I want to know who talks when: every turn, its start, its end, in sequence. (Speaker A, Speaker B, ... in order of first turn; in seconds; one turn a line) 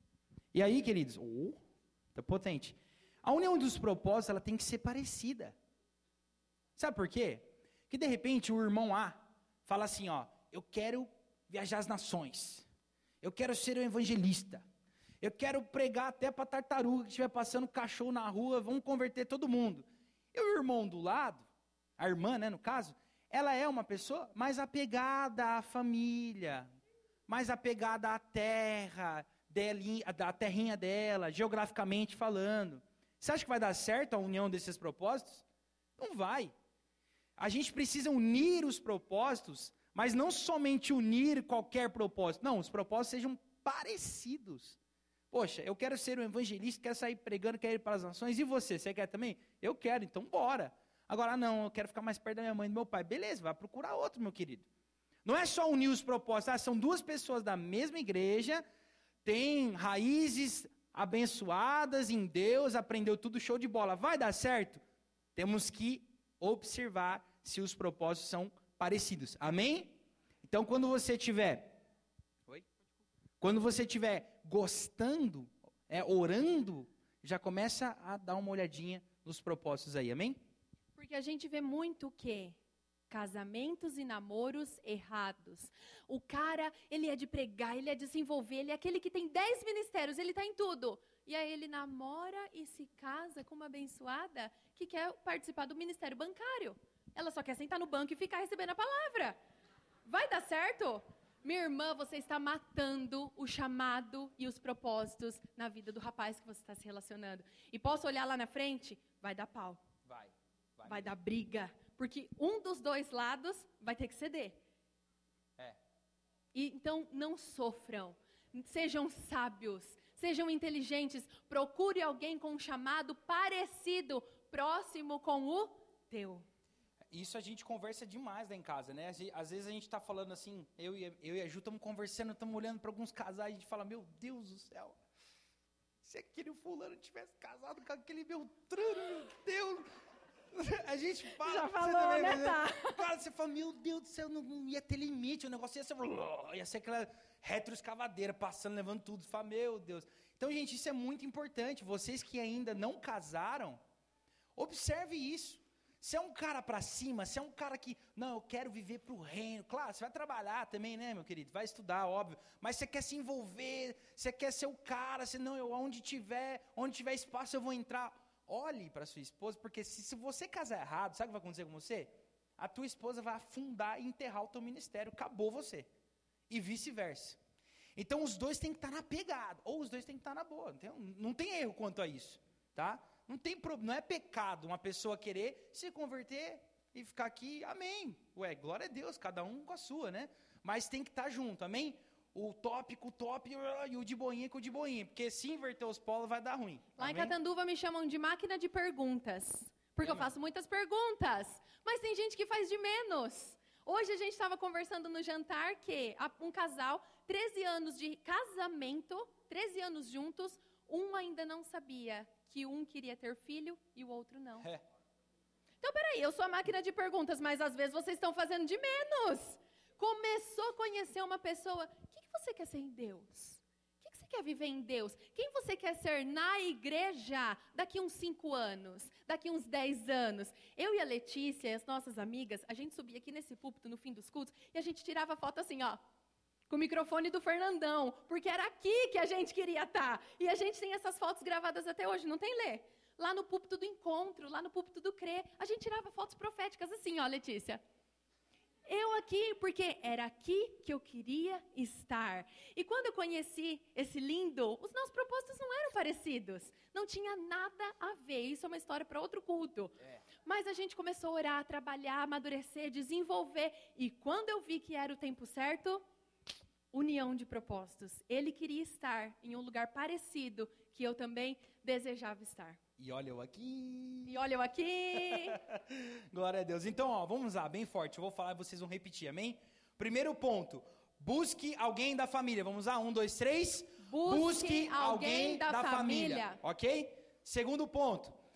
Speaker A: 0.5-1.6
Speaker A: 2.1-5.5
Speaker A: 6.8-12.7
Speaker A: 13.2-14.6
Speaker A: 15.2-21.5
Speaker A: 22.0-26.7
Speaker A: 27.3-35.4
Speaker A: 36.0-36.5
Speaker A: 37.4-44.8
Speaker A: 45.3-54.7
Speaker A: 55.2-58.6
Speaker A: 59.2-64.8
Speaker A: 65.3-71.8
Speaker A: 73.4-80.4
Speaker B: 81.0-82.6
Speaker B: 83.1-99.4
Speaker B: 100.0-109.8
Speaker A: 110.0-111.1
Speaker B: 110.8-114.6
Speaker B: 116.5-126.5
Speaker A: 127.1-135.0
Speaker A: 136.0-139.8
Speaker A: 140.5-153.8
Speaker B: 141.4-143.0
Speaker A: 154.6-175.9
Speaker A: 176.5-177.4
Speaker A: 177.9-197.3
Speaker B: 197.0-214.7
Speaker A: 200.0-200.3
Speaker B: 215.8-236.0
Speaker B: 236.7-247.8
Speaker B: 248.9-266.0
Speaker B: 266.9-272.8
Speaker A: 273.0-274.4
Speaker B: 274.2-275.6
Speaker A: 275.3-288.4
Speaker B: 284.0-286.6